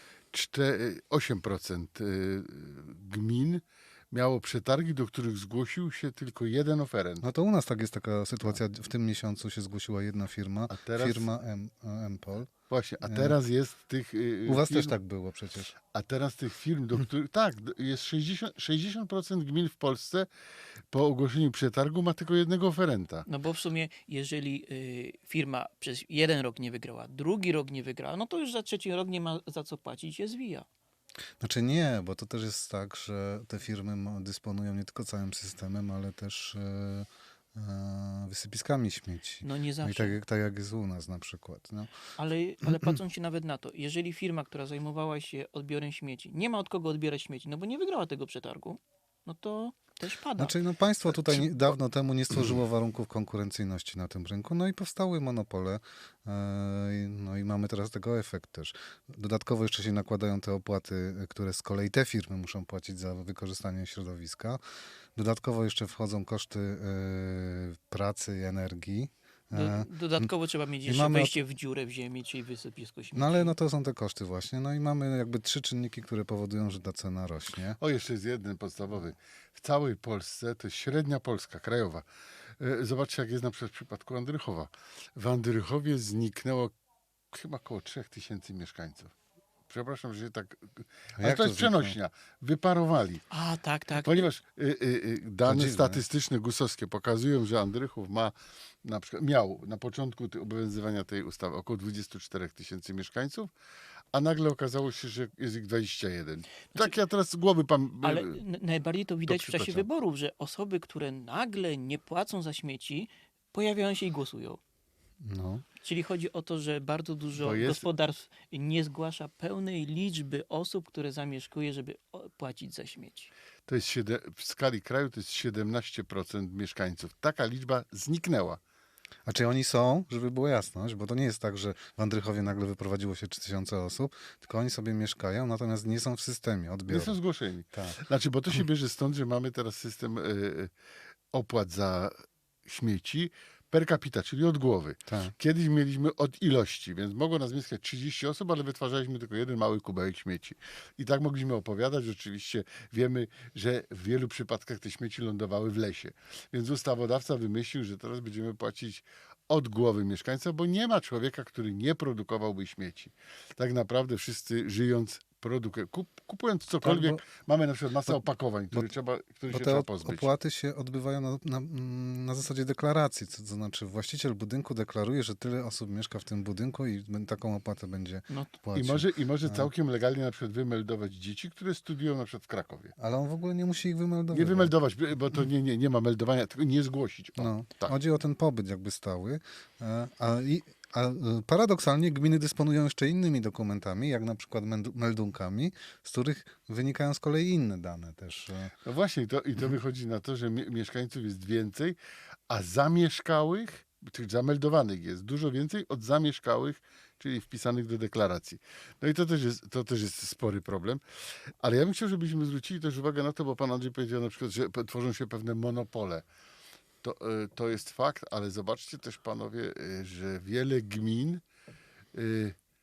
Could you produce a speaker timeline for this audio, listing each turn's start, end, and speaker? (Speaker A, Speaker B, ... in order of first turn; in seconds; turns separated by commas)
Speaker A: 0.3-7.3, Speaker B: 7.2-12.5, Speaker A: 10.7-11.3, Speaker A: 12.7-15.0, Speaker B: 13.0-13.4, Speaker B: 14.4-15.7, Speaker A: 15.8-20.3, Speaker A: 20.9-23.2, Speaker C: 23.3-30.7, Speaker B: 31.4-42.0, Speaker C: 39.4-40.2, Speaker C: 42.2-50.6, Speaker B: 50.4-64.6, Speaker A: 51.1-51.5, Speaker B: 65.1-70.3, Speaker C: 69.5-73.5, Speaker B: 70.8-71.3, Speaker B: 73.1-77.8, Speaker A: 77.8-82.0, Speaker A: 82.6-86.7, Speaker A: 87.3-89.1, Speaker A: 89.7-93.2, Speaker B: 91.2-92.0, Speaker C: 93.3-94.3, Speaker A: 94.0-103.5, Speaker B: 95.4-96.0, Speaker A: 104.1-108.4, Speaker C: 108.0-114.6, Speaker A: 109.3-109.8, Speaker B: 115.2-115.6, Speaker C: 115.8-123.3, Speaker A: 117.3-117.8, Speaker A: 123.7-128.6, Speaker B: 129.2-137.2, Speaker A: 136.9-140.7, Speaker B: 137.7-138.0, Speaker A: 141.3-142.1, Speaker A: 142.6-170.3, Speaker B: 145.1-145.3, Speaker B: 166.8-167.2, Speaker B: 168.1-168.9, Speaker B: 169.5-179.7, Speaker A: 178.7-182.9, Speaker B: 183.0-184.8, Speaker A: 184.3-187.9, Speaker B: 187.4-198.7, Speaker A: 198.8-202.0, Speaker A: 202.5-211.0, Speaker A: 211.6-216.3, Speaker A: 217.0-221.4, Speaker A: 222.1-222.5